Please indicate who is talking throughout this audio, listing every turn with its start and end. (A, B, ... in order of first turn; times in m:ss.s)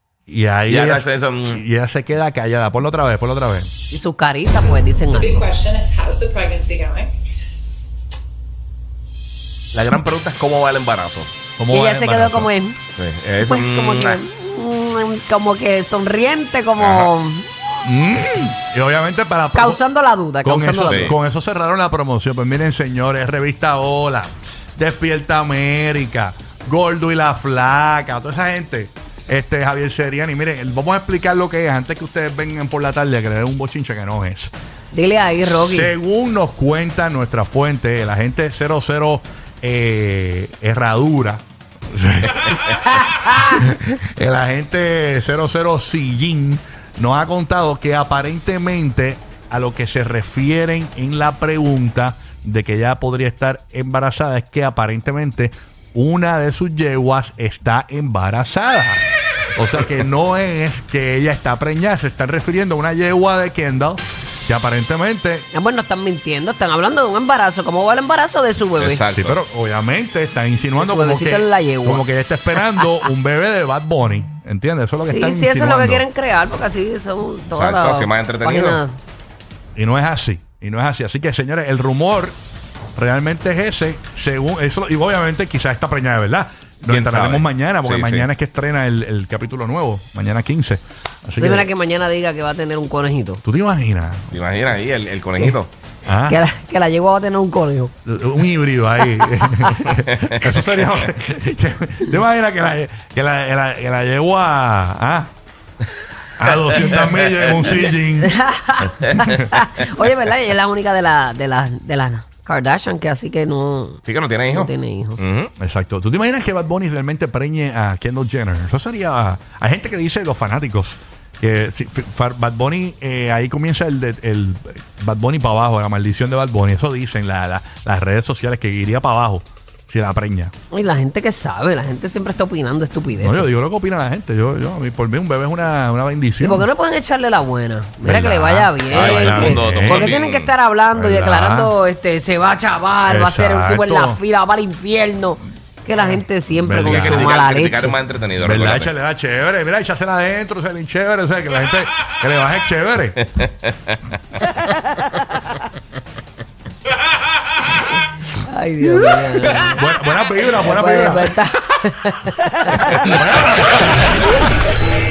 0:00.3-0:03.7 A
0:00.7-0:01.6 B
0:03.9-0:05.5 C
0:05.1-0:07.1 D
0:09.7-0:11.3 B
0:11.6-0:12.5 A
0:11.7-0:12.8 C
0:13.0-0:14.2 B
0:13.4-0:17.5 C
0:16.8-0:17.1 B
0:17.8-0:19.8 A
0:19.5-0:21.2 C
0:20.4-0:34.5 A
0:20.9-0:21.1 B
0:34.9-0:35.9 C
0:35.7-0:59.0 A
0:42.7-0:43.6 C
0:59.6-1:05.5 A
1:05.5-1:09.0 C
1:08.8-1:09.4 B
1:09.1-1:16.0 A
1:10.8-1:13.1 C
1:15.0-1:19.0 C
1:17.5-1:18.8 B
1:19.8-1:22.4 A
1:23.0-1:31.7 A
1:26.9-1:28.3 B
1:31.4-1:33.4 C
1:33.4-1:34.4 A
1:34.3-1:35.7 B
1:36.0-1:36.4 A
1:36.2-1:37.9 C
1:38.0-1:45.3 A
1:39.1-1:39.8 C
1:40.2-1:40.5 B
1:46.4-1:49.5 A
1:47.1-1:47.7 B
1:48.2-1:55.2 C
1:54.0-1:55.5 B
1:55.6-2:10.5 A
2:10.7-2:13.5 C
2:13.2-2:16.7 A
2:16.4-2:27.9 C
2:18.0-2:20.1 A
2:18.9-2:20.5 B
2:20.9-2:21.7 A
2:23.0-2:24.2 A
2:26.0-2:27.3 A
2:26.8-2:28.9 B
2:28.4-2:33.2 A
2:38.4-2:39.8 C
2:39.7-2:41.3 A
2:40.6-2:43.2 C
2:43.0-2:43.8 A